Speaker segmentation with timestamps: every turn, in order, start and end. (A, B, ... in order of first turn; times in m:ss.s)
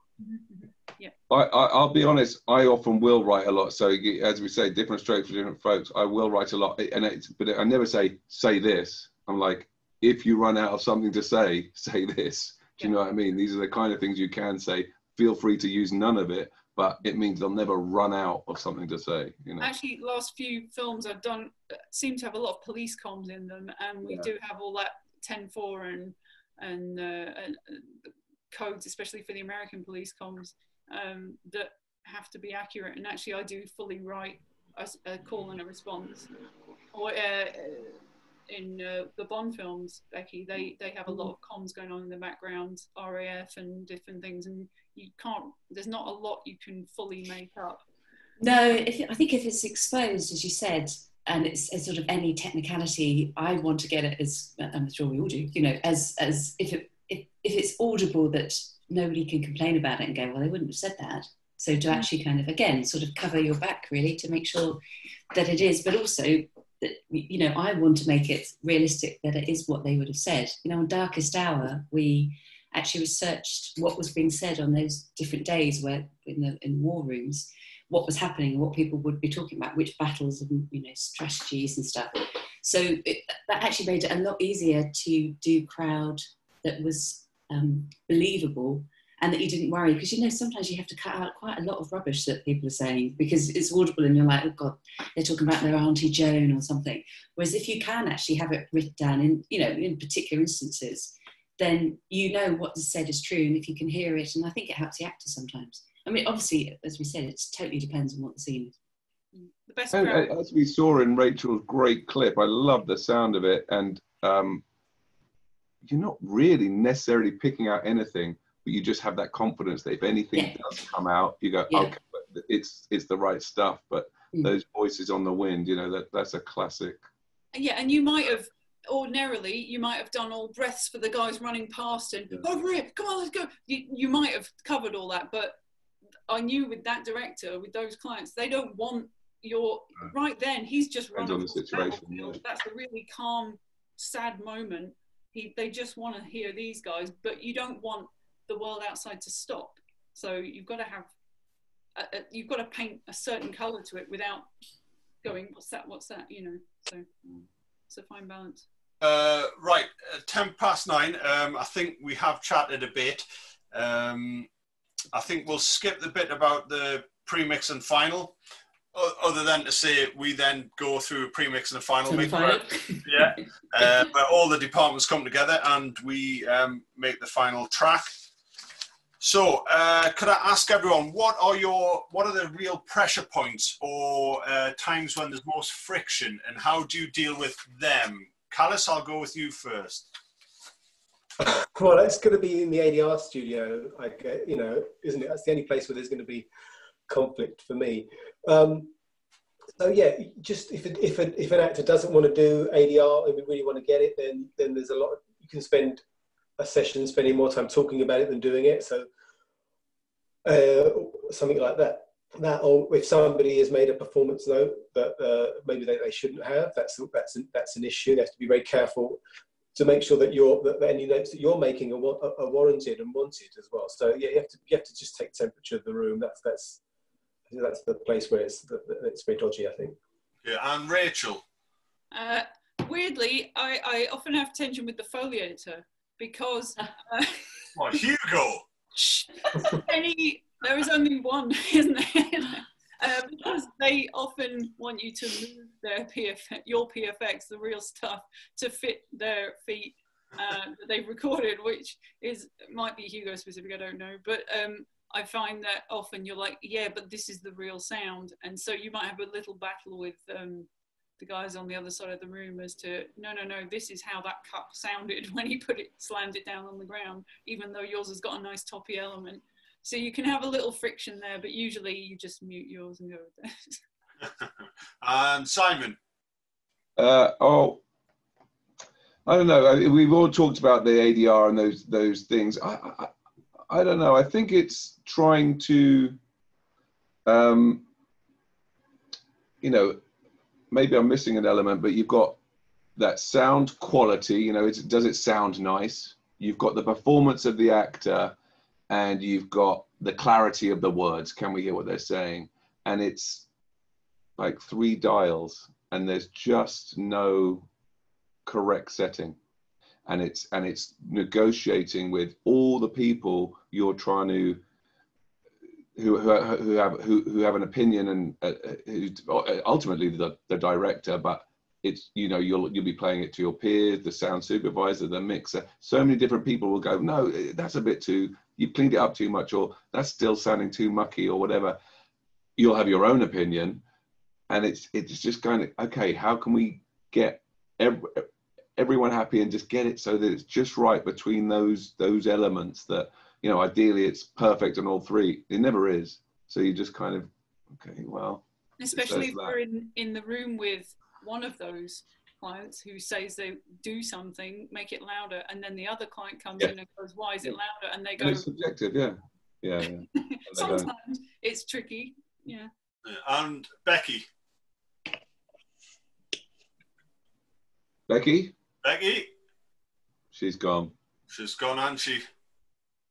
0:00.2-0:01.1 A
0:01.3-0:19.7 B
0:19.6-0:36.3 A
0:24.0-0:24.3 B
0:36.9-0:38.0 A
0:38.5-0:47.8 A
0:48.4-1:04.8 C
1:05.3-1:48.8 C
1:49.5-1:50.3 A
1:49.9-1:54.6 B
1:55.8-2:07.0 B
2:00.3-2:00.6 C
2:07.5-2:15.6 A
2:16.3-2:31.1 A
2:21.1-2:22.4 B
2:32.0-2:34.5 A
2:35.2-2:37.1 A
2:37.9-2:38.6 A
2:39.0-2:44.5 D
2:45.1-2:48.4 D
2:48.9-2:58.2 D
2:52.1-2:53.9 C
2:59.2-3:10.1 D
3:11.4-3:16.5 E
3:17.1-3:18.9 E
3:19.8-3:26.0 E
3:26.6-3:29.1 E
3:30.4-3:39.2 E
3:39.7-3:46.8 E
3:47.5-3:50.0 E
3:50.4-3:51.4 D
3:52.1-3:57.5 A
3:57.8-3:58.6 D
3:59.0-4:20.7 A
4:21.2-4:33.8 A
4:35.0-4:36.0 D
4:37.0-4:37.8 B
4:39.2-4:43.1 B
4:43.7-4:46.2 B
4:47.2-4:47.8 B
4:49.6-4:50.0 B
4:50.7-4:52.4 B
4:53.0-4:58.3 B
4:58.9-5:03.4 B
5:04.4-5:07.7 B
5:08.4-5:09.4 B
5:10.0-5:14.6 B
5:16.0-5:31.8 B
5:32.6-5:33.8 B
5:34.5-5:38.2 B
5:38.8-5:49.5 B
5:48.8-5:58.5 A
5:58.2-6:00.9 B
6:00.1-6:02.7 A
6:03.0-6:04.2 D
6:08.1-6:08.5 B
6:08.8-6:09.3 D
6:10.3-6:10.9 B
6:11.3-6:12.2 D